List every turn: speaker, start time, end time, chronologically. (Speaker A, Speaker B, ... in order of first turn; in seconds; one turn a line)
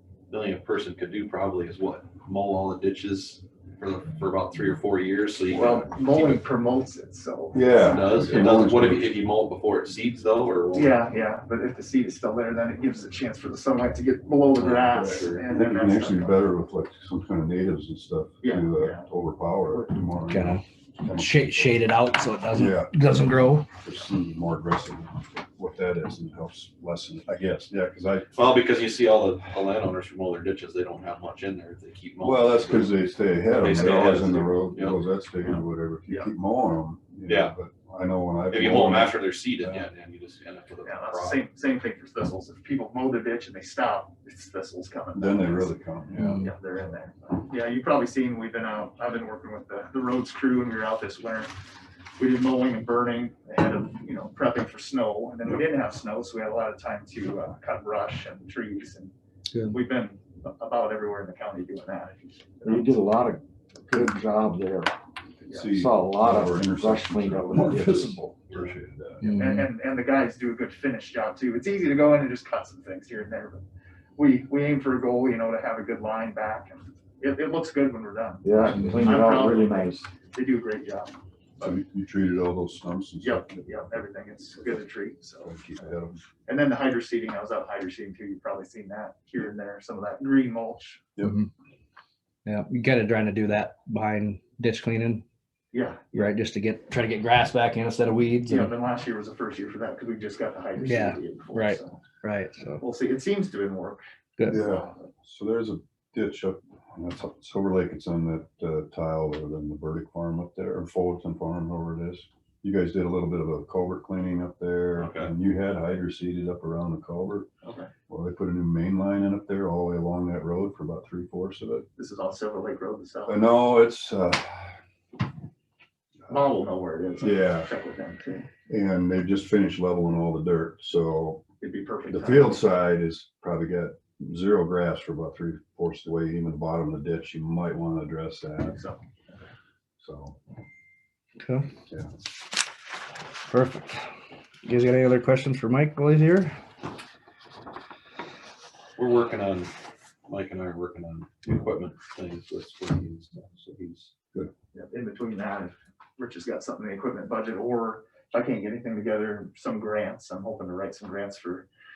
Speaker A: 0.3-6.4
Speaker B: 5.5-8.4
Speaker C: 7.5-9.1
Speaker A: 7.8-11.0
Speaker B: 10.7-16.4
Speaker A: 14.6-15.4
Speaker C: 14.8-21.7
Speaker B: 18.4-19.1
Speaker D: 20.3-23.7
Speaker C: 22.5-22.9
Speaker C: 23.8-28.3
Speaker A: 28.3-35.6
Speaker C: 32.2-39.9
Speaker A: 37.3-37.5
Speaker A: 38.5-41.4
Speaker B: 40.8-45.7
Speaker C: 45.1-46.5
Speaker D: 46.1-46.5
Speaker B: 46.4-51.5
Speaker B: 52.2-59.1
Speaker B: 59.7-63.1
Speaker E: 62.7-63.4
Speaker E: 63.9-64.9
Speaker C: 65.4-69.3
Speaker B: 65.5-65.7
Speaker E: 65.8-68.2
Speaker D: 69.2-69.7
Speaker B: 69.3-73.6
Speaker B: 74.2-81.8
Speaker E: 78.4-80.0
Speaker C: 81.6-83.6
Speaker B: 83.2-85.5
Speaker C: 85.4-86.2
Speaker B: 86.5-91.0
Speaker D: 91.2-91.5
Speaker D: 92.4-95.2
Speaker B: 95.7-96.3
Speaker D: 96.1-98.7
Speaker B: 98.4-102.0
Speaker D: 100.8-102.8
Speaker B: 102.8-105.1
Speaker C: 104.5-117.5
Speaker A: 115.0-115.3
Speaker B: 117.6-117.9
Speaker C: 118.1-121.8
Speaker B: 122.0-123.4
Speaker C: 123.3-124.8
Speaker B: 126.3-128.5
Speaker C: 127.2-127.7
Speaker C: 128.7-131.4
Speaker B: 131.6-132.6
Speaker C: 132.1-138.8
Speaker B: 138.6-139.0
Speaker C: 140.0-140.3
Speaker D: 141.4-141.7
Speaker D: 143.5-144.0
Speaker D: 144.6-146.5
Speaker A: 149.0-149.7
Speaker A: 150.2-154.1
Speaker B: 154.7-161.7